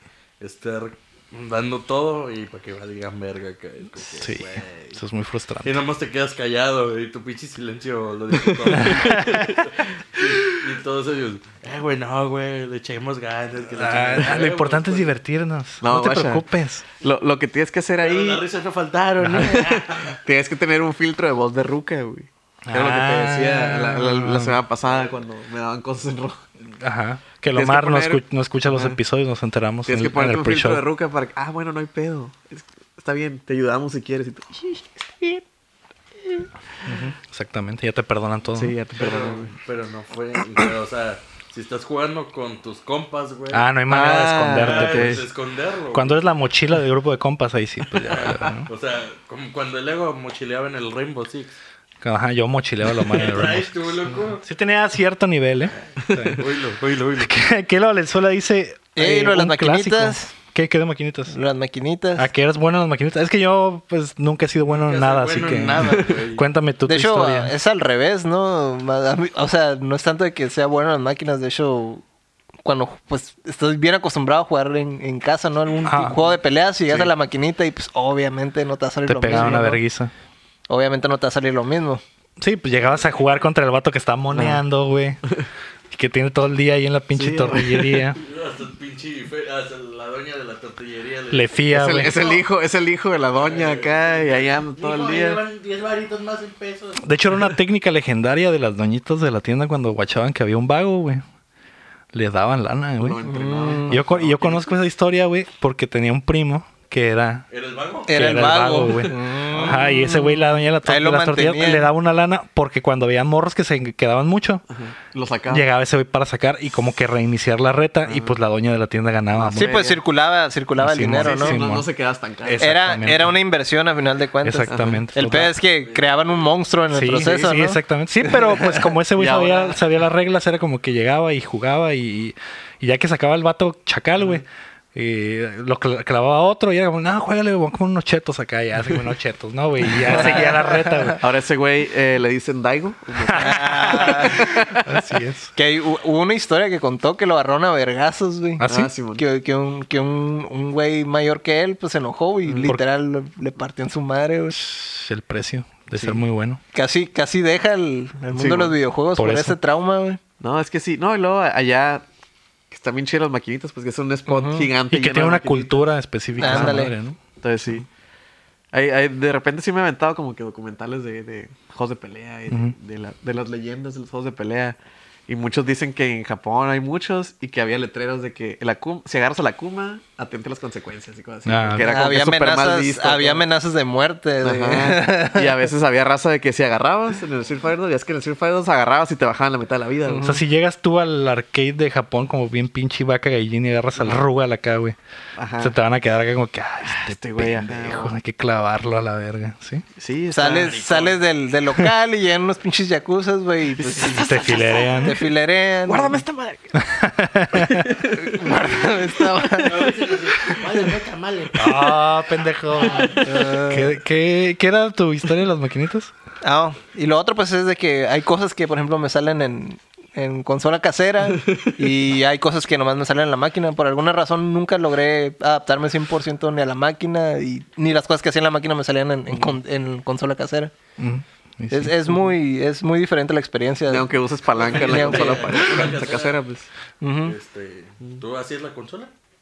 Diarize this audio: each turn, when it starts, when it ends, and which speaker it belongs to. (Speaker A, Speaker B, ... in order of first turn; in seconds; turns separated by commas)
Speaker A: 0.4-5.0, Speaker B: 4.2-5.8, Speaker A: 5.6-15.1, Speaker C: 8.5-9.6, Speaker B: 8.7-9.6, Speaker B: 13.7-16.8, Speaker C: 15.8-16.4, Speaker C: 17.0-18.4, Speaker A: 18.0-20.2, Speaker B: 19.2-19.6, Speaker C: 19.3-26.4, Speaker B: 22.6-24.6, Speaker B: 26.8-30.8, Speaker C: 27.5-29.0, Speaker C: 29.9-35.4, Speaker B: 36.9-38.7, Speaker C: 38.5-39.5, Speaker A: 38.9-43.7, Speaker B: 43.5-45.2, Speaker C: 43.9-45.2, Speaker A: 44.5-46.2, Speaker B: 45.9-48.7, Speaker A: 48.0-51.5, Speaker B: 52.0-56.4, Speaker A: 53.0-54.4, Speaker A: 55.7-57.4, Speaker C: 56.0-56.4, Speaker B: 57.2-61.3, Speaker D: 59.0-60.3, Speaker D: 61.3-62.3, Speaker B: 62.2-67.5, Speaker A: 64.7-66.4, Speaker C: 65.8-66.2, Speaker D: 66.9-72.0, Speaker D: 72.6-79.8, Speaker B: 75.8-76.2, Speaker C: 76.9-77.1, Speaker B: 79.0-80.1, Speaker C: 79.3-79.7, Speaker D: 80.7-82.0, Speaker B: 82.4-85.2, Speaker A: 82.8-83.4, Speaker C: 84.3-84.6, Speaker B: 85.9-88.2, Speaker C: 87.1-88.0, Speaker A: 88.2-92.5, Speaker B: 91.3-92.2, Speaker C: 91.7-95.4, Speaker A: 93.3-97.1, Speaker B: 97.0-101.2, Speaker B: 102.1-103.2, Speaker C: 103.0-104.6, Speaker D: 103.2-104.0, Speaker B: 103.9-107.4, Speaker A: 107.5-108.2, Speaker D: 108.1-111.9, Speaker B: 108.1-114.6, Speaker A: 109.5-109.8, Speaker C: 114.7-115.7, Speaker B: 115.5-119.7, Speaker C: 118.0-118.3, Speaker C: 119.3-120.0, Speaker D: 119.5-121.6, Speaker B: 120.8-121.8, Speaker C: 121.1-122.7, Speaker B: 122.4-123.3, Speaker D: 122.6-127.8, Speaker B: 124.4-125.5, Speaker C: 124.7-125.1, Speaker A: 125.8-126.5, Speaker B: 126.9-141.2, Speaker C: 127.1-127.5, Speaker C: 129.1-129.8, Speaker C: 139.9-144.9, Speaker D: 140.1-141.1, Speaker B: 143.2-145.5, Speaker D: 143.3-144.5, Speaker D: 145.6-148.6, Speaker B: 148.6-148.9, Speaker C: 148.6-149.2, Speaker D: 149.2-154.6, Speaker C: 152.4-152.7, Speaker B: 154.5-156.6, Speaker D: 156.7-160.2, Speaker C: 158.3-158.8, Speaker B: 159.2-159.6, Speaker C: 160.4-162.1, Speaker C: 162.7-165.8, Speaker D: 164.3-164.7, Speaker B: 164.9-167.2, Speaker C: 166.4-167.8, Speaker D: 166.4-166.9, Speaker C: 168.7-183.4, Speaker B: 172.5-172.7, Speaker B: 181.4-181.9, Speaker D: 181.8-185.6, Speaker C: 184.4-190.3, Speaker D: 190.1-190.4, Speaker B: 190.2-195.0, Speaker C: 194.0-194.2, Speaker C: 195.4-195.7, Speaker B: 195.6-199.8, Speaker C: 196.8-198.1, Speaker C: 199.9-200.8, Speaker D: 200.3-206.2, Speaker A: 200.4-201.2, Speaker C: 203.8-205.1, Speaker B: 204.1-205.2, Speaker A: 204.6-205.0, Speaker C: 205.8-206.7, Speaker B: 206.8-207.9, Speaker C: 207.5-208.6, Speaker D: 208.1-210.6, Speaker A: 209.5-212.2, Speaker B: 211.5-216.1, Speaker A: 212.7-213.2, Speaker D: 213.2-213.9, Speaker D: 216.4-230.7, Speaker B: 231.0-231.9, Speaker D: 231.7-235.7, Speaker C: 233.9-236.7, Speaker A: 234.5-236.4, Speaker D: 237.0-237.3, Speaker A: 237.2-239.1